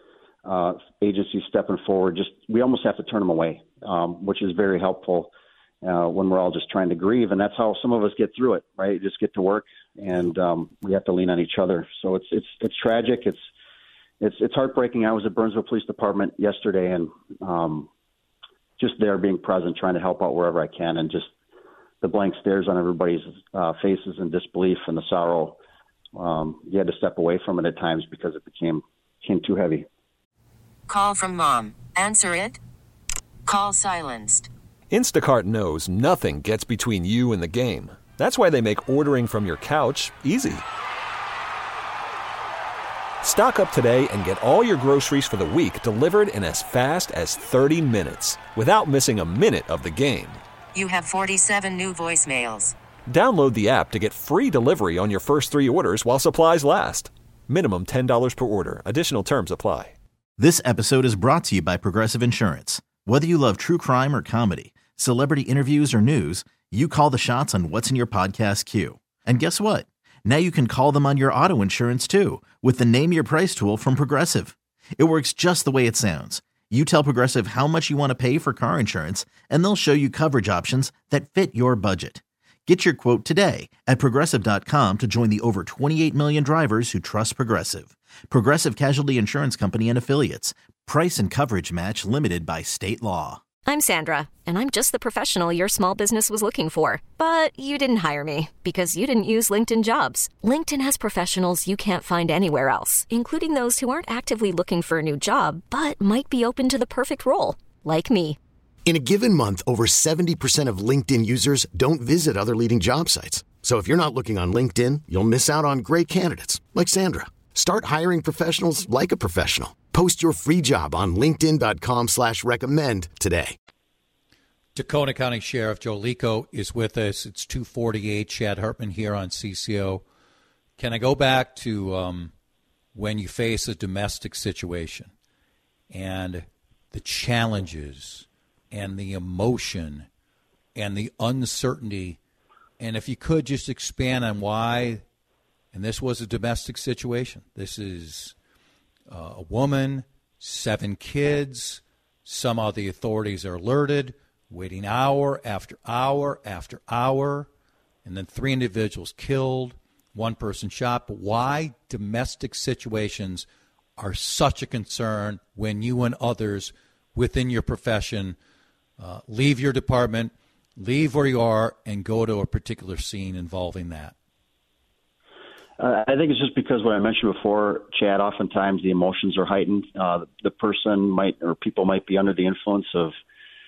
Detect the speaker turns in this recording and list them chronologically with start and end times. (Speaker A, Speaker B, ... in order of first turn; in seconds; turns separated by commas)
Speaker A: 0.4-5.3, Speaker A: 5.8-13.4, Speaker A: 14.2-17.9, Speaker A: 18.8-21.3, Speaker A: 22.0-25.6, Speaker A: 26.1-29.9, Speaker B: 30.9-32.6, Speaker B: 33.5-34.5, Speaker C: 34.9-40.6, Speaker C: 43.2-50.4, Speaker B: 50.7-52.8, Speaker C: 53.1-59.9, Speaker D: 60.4-93.4, Speaker E: 93.7-108.4, Speaker F: 108.8-123.5, Speaker G: 124.7-130.0, Speaker G: 130.8-132.3, Speaker G: 132.9-135.1, Speaker G: 135.9-140.1, Speaker G: 140.7-142.2, Speaker G: 142.8-145.0, Speaker G: 145.7-148.3, Speaker G: 149.1-157.5, Speaker G: 158.0-163.5, Speaker G: 164.0-168.4, Speaker G: 169.0-174.1, Speaker A: 175.8-183.1